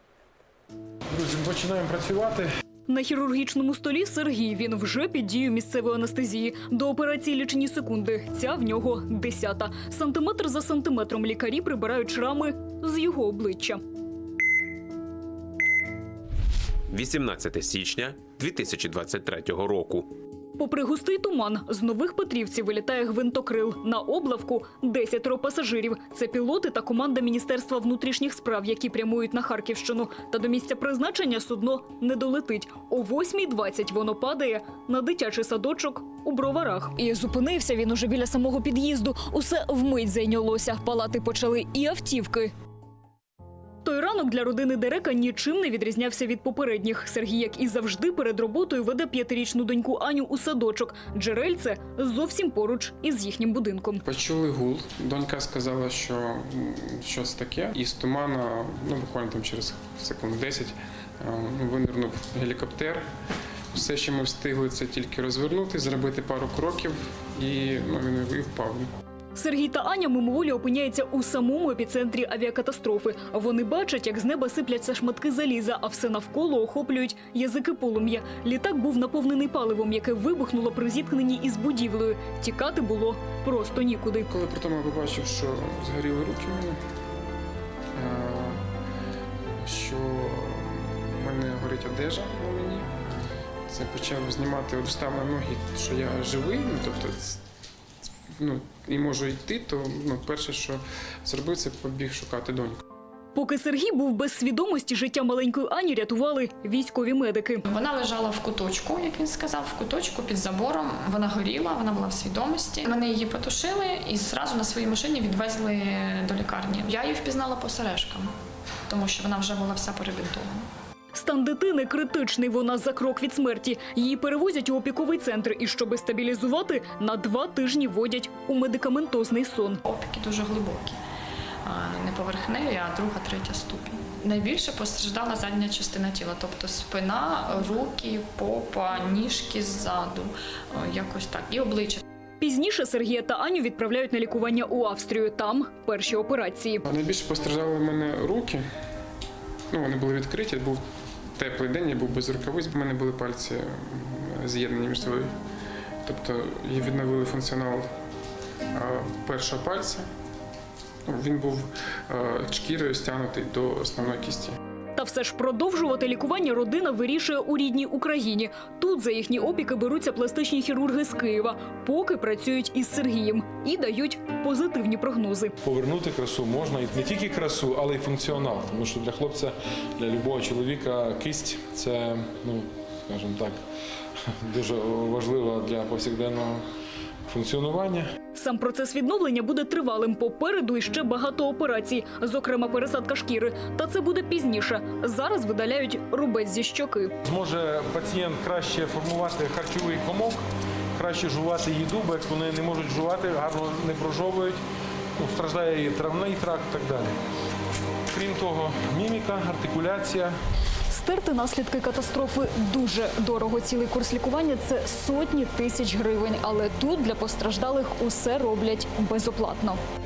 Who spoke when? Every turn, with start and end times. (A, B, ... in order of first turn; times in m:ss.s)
0:01.1-0:02.5 A
0:02.9-0:13.8 B
0:16.9-0:20.1 C
0:20.6-0:42.5 B
0:43.8-0:54.0 B
0:54.0-1:03.0 D
1:03.7-1:08.9 D
1:09.4-1:24.3 B
1:24.3-1:26.8 D
1:28.0-1:28.6 D
1:29.6-1:32.9 D
1:33.7-1:37.4 D
1:38.4-1:42.8 D
1:43.3-1:47.6 B
1:47.6-1:58.3 E
1:58.9-2:00.6 E
2:01.1-2:09.8 B
2:09.8-2:11.0 E
2:11.6-2:22.0 E
2:22.4-2:26.8 B
2:26.8-2:28.6 D
2:29.7-2:30.8 D
2:31.4-2:35.3 D
2:36.0-2:37.9 D
2:38.7-2:40.1 D
2:41.1-2:44.6 D
2:45.0-2:55.5 B
2:55.6-3:03.6 A
3:04.4-3:06.6 A
3:07.3-3:08.1 A
3:08.3-3:17.1 B
3:17.2-3:20.4 A
3:20.9-3:24.6 A
3:25.2-3:27.1 A
3:28.1-3:30.3 A
3:30.9-3:39.8 B